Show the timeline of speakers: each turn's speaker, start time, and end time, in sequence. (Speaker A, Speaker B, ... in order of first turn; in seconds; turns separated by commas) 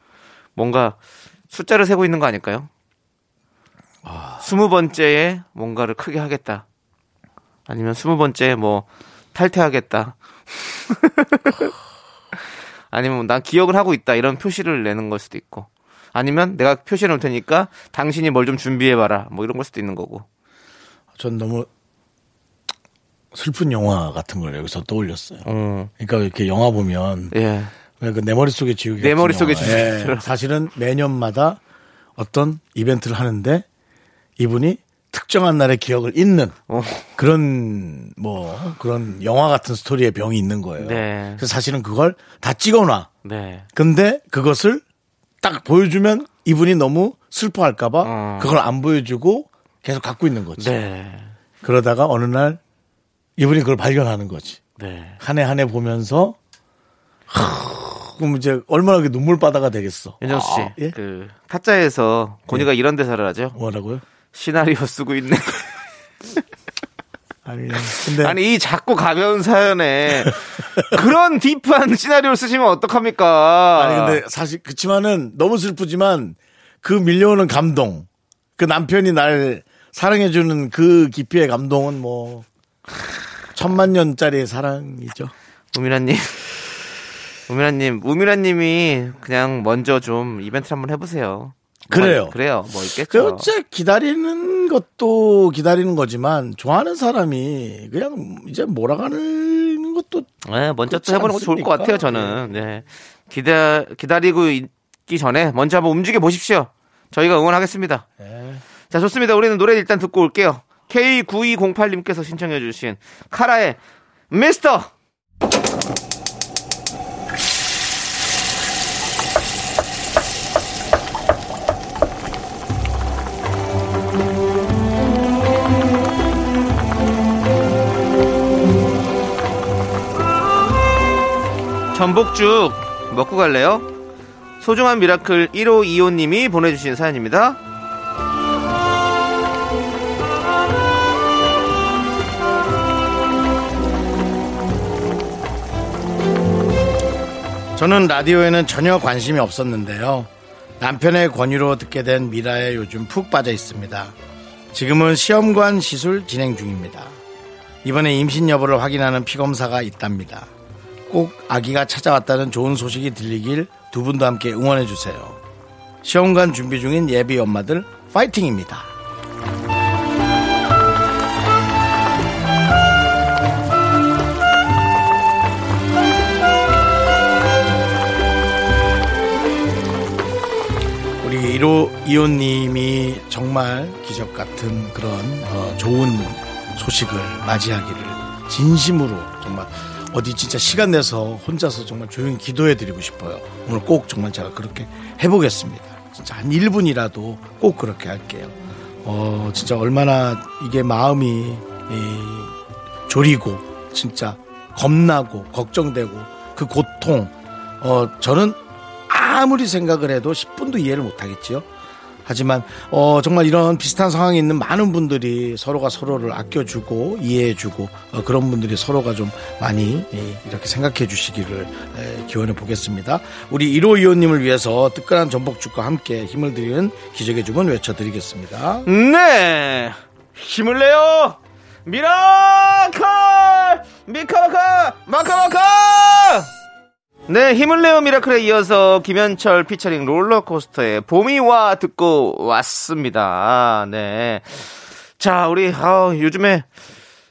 Speaker A: 0.6-1.0, Speaker A: 1.5-2.7, Speaker B: 4.0-4.5, Speaker A: 4.4-6.7, Speaker A: 7.7-10.2, Speaker A: 10.9-11.7, Speaker A: 12.9-20.2, Speaker B: 21.2-21.7, Speaker B: 23.3-25.4, Speaker A: 25.4-25.9, Speaker B: 26.0-27.3, Speaker A: 27.3-27.7, Speaker B: 28.0-31.6, Speaker A: 29.0-30.3, Speaker B: 32.2-33.7, Speaker B: 34.4-36.6, Speaker A: 36.7-37.1, Speaker B: 37.2-43.1, Speaker A: 40.8-41.4, Speaker A: 43.2-43.7, Speaker B: 43.8-44.8, Speaker B: 45.4-50.8, Speaker A: 48.0-48.6, Speaker A: 50.6-51.3, Speaker B: 51.6-52.6, Speaker B: 53.4-54.6, Speaker A: 54.8-55.2, Speaker B: 55.2-56.4, Speaker B: 57.3-61.0, Speaker A: 60.2-63.6, Speaker B: 63.5-64.0, Speaker A: 64.3-65.7, Speaker B: 67.5-68.4, Speaker A: 67.9-74.2, Speaker B: 73.8-82.5, Speaker B: 83.5-85.3, Speaker A: 85.7-86.5, Speaker A: 87.5-93.5, Speaker B: 91.9-92.4, Speaker B: 93.1-100.3, Speaker A: 100.5-108.0, Speaker B: 100.9-102.7, Speaker B: 108.2-108.6, Speaker A: 108.9-113.8, Speaker A: 114.3-114.9, Speaker A: 131.9-133.9, Speaker A: 134.6-137.6, Speaker B: 147.8-154.2, Speaker B: 154.7-157.2, Speaker B: 157.8-160.5, Speaker B: 161.1-165.4, Speaker B: 166.0-168.9, Speaker B: 181.2-202.6, Speaker B: 203.1-211.7, Speaker B: 212.3-228.9, Speaker A: 228.9-236.5, Speaker A: 237.3-246.7